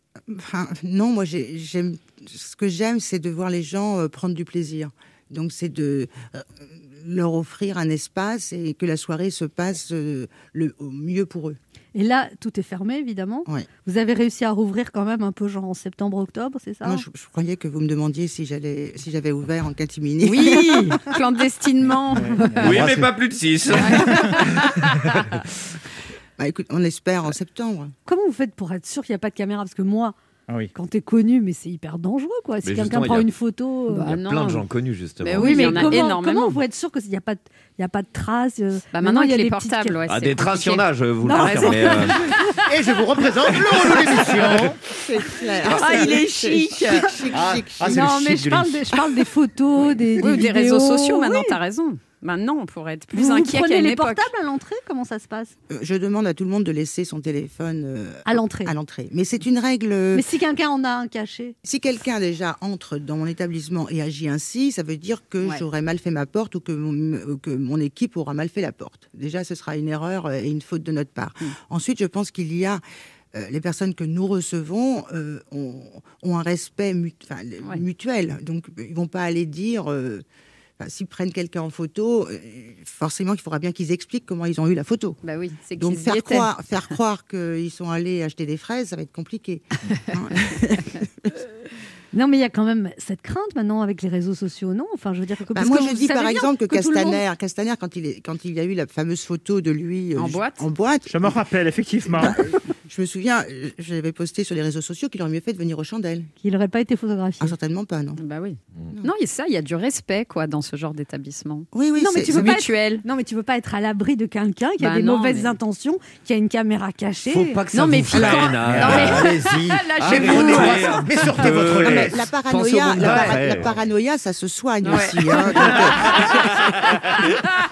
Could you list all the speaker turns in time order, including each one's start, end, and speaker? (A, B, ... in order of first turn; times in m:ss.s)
0:00.3-0:11.6 A
0:11.9-0:17.0 B
0:16.8-0:21.0 A
0:20.2-0:22.9 C
0:22.1-0:23.1 D
0:22.6-0:24.6 E
0:23.8-0:24.4 D
0:23.8-0:24.7 C
0:26.4-0:27.9 A
0:28.1-0:30.1 B
0:30.7-0:34.1 B
0:32.6-0:33.3 E
0:33.9-0:34.6 C
0:34.0-0:36.0 E
0:35.2-0:36.6 C
0:35.4-0:40.0 B
0:38.9-0:42.1 C
0:40.1-0:42.2 E
0:41.2-0:42.6 B
0:42.7-0:44.8 D
0:44.3-0:48.2 A
0:45.6-0:46.2 E
0:45.6-0:47.1 C
0:47.3-0:48.9 D
0:47.9-0:51.6 B
0:49.8-0:54.3 C
0:53.1-0:55.5 B
0:55.7-1:00.3 A
0:58.3-0:58.7 B
1:00.1-1:01.5 B
1:01.6-1:12.8 A
1:13.3-1:20.2 A
1:20.8-1:25.2 A
1:25.2-1:26.5 C
1:25.8-1:31.3 A
1:32.1-1:37.2 B
1:35.6-1:41.4 A
1:40.1-1:40.7 C
1:41.1-1:42.4 D
1:42.1-1:46.3 A
1:46.4-1:47.5 B
1:47.4-1:48.2 A
1:48.2-1:51.7 C
1:51.7-1:52.6 A
1:52.0-1:57.6 B
1:52.3-1:53.0 C
1:54.8-1:55.5 C
1:57.3-1:59.4 E
1:57.7-2:01.3 C
1:58.1-2:02.2 D
2:00.0-2:03.8 E
2:01.8-2:06.5 A
2:03.0-2:03.3 C
2:04.8-2:06.1 C
2:06.4-2:07.0 E